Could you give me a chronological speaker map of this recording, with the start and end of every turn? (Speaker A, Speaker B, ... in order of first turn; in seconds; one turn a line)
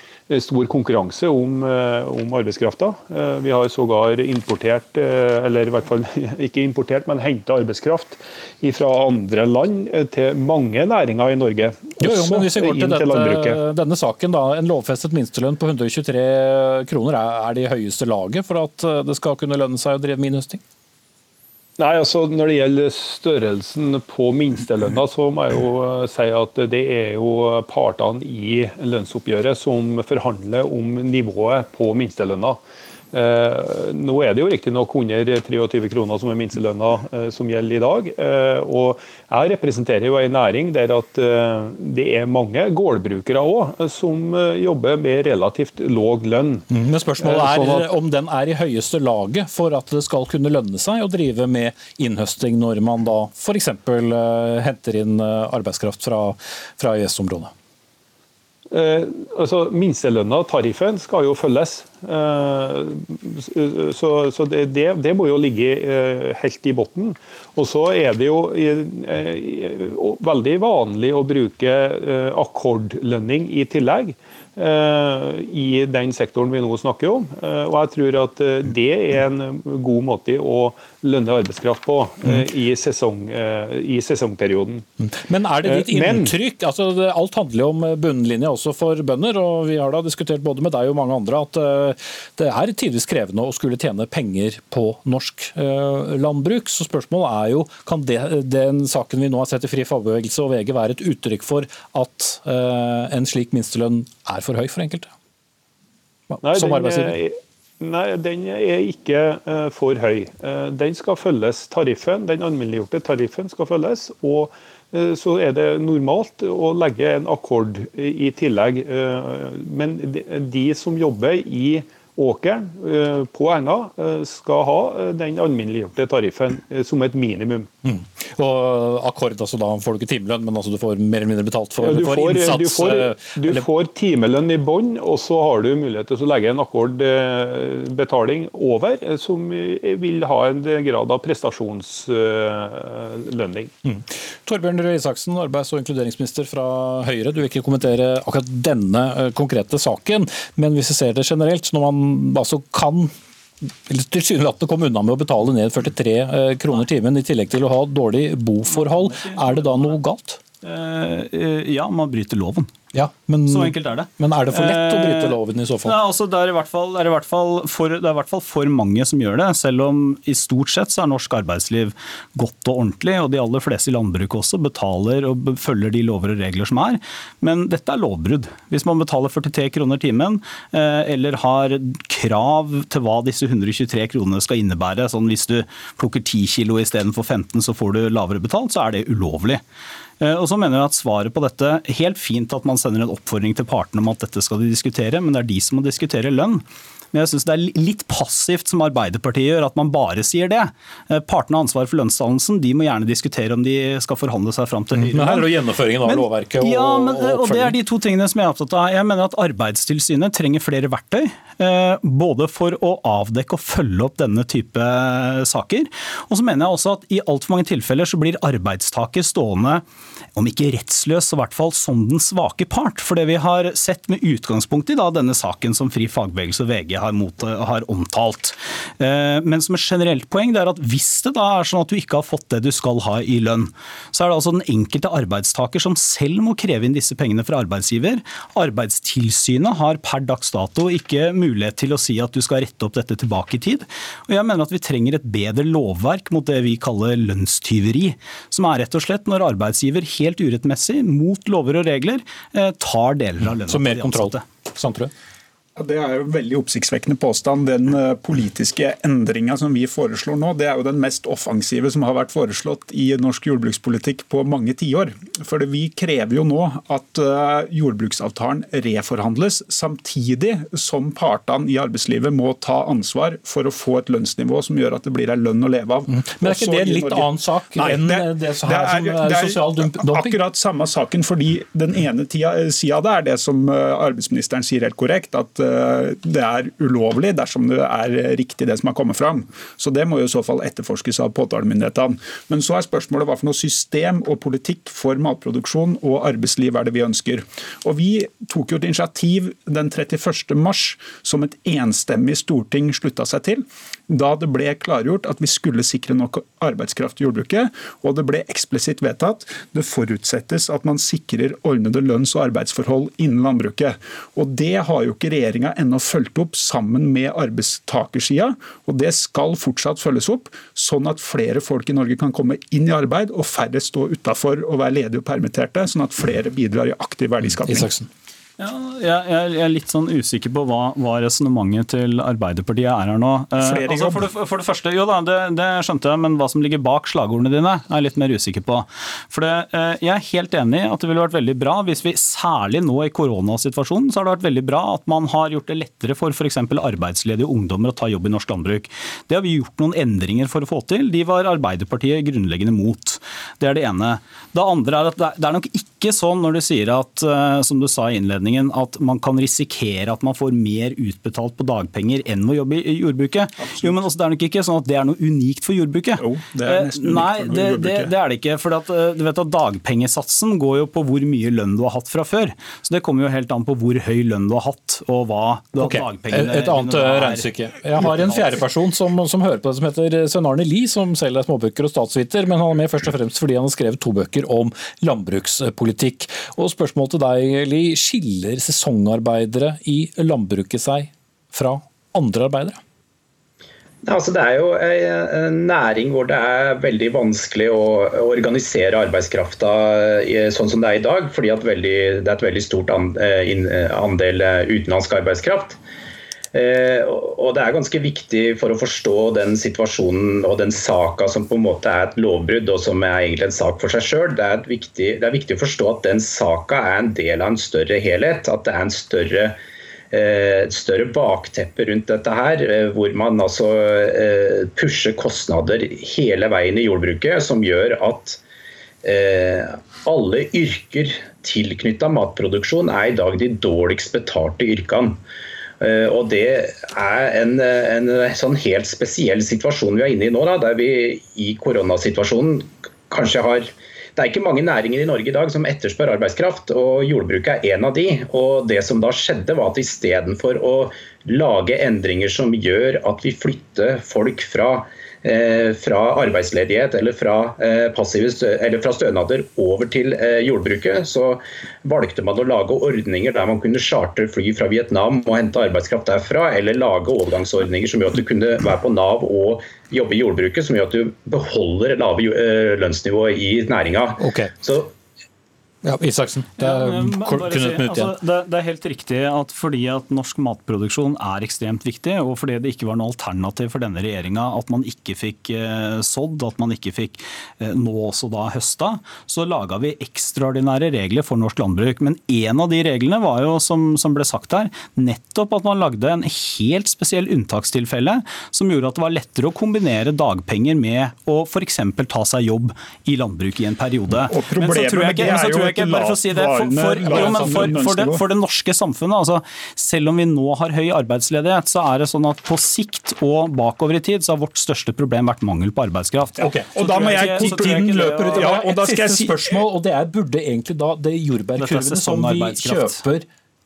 Speaker A: 0.3-13.6
Speaker B: 12.0-20.6
Speaker A: 21.8-32.6
Speaker A: 33.1-46.6
Speaker B: 46.7-57.5
Speaker A: 47.2-47.9
Speaker A: 58.7-84.8
Speaker B: 85.0-105.1
Speaker A: 85.6-86.3
Speaker B: 106.3-107.2
Speaker A: 106.4-127.7
Speaker B: 127.8-133.7
Speaker A: 131.8-143.7
Speaker B: 143.8-153.1
Speaker B: 153.9-160.4
Speaker C: 158.7-160.0
Speaker C: 160.6-162.7
Speaker B: 162.9-166.0
Speaker C: 163.4-189.6
Speaker C: 190.2-219.8
Speaker B: 204.9-207.8
Speaker C: 220.3-254.4
Speaker B: 253.7-255.1
Speaker D: 255.8-327.9
Speaker B: 276.1-280.4
Speaker B: 327.6-328.1
Speaker C: 328.6-378.6
Speaker D: 333.6-334.3
Speaker D: 366.2-368.1
Speaker B: 375.7-392.8
Speaker E: 394.0-405.8
Speaker E: 406.5-419.6
Speaker E: 420.1-428.4
Speaker E: 429.0-435.2
Speaker E: 435.8-474.9
Speaker B: 474.2-474.5
Speaker B: 475.8-478.1
Speaker C: 476.6-518.8
Speaker D: 504.1-508.2
Speaker B: 507.0-507.8
Speaker D: 516.4-519.6
Speaker B: 516.4-523.2
Speaker C: 521.6-523.0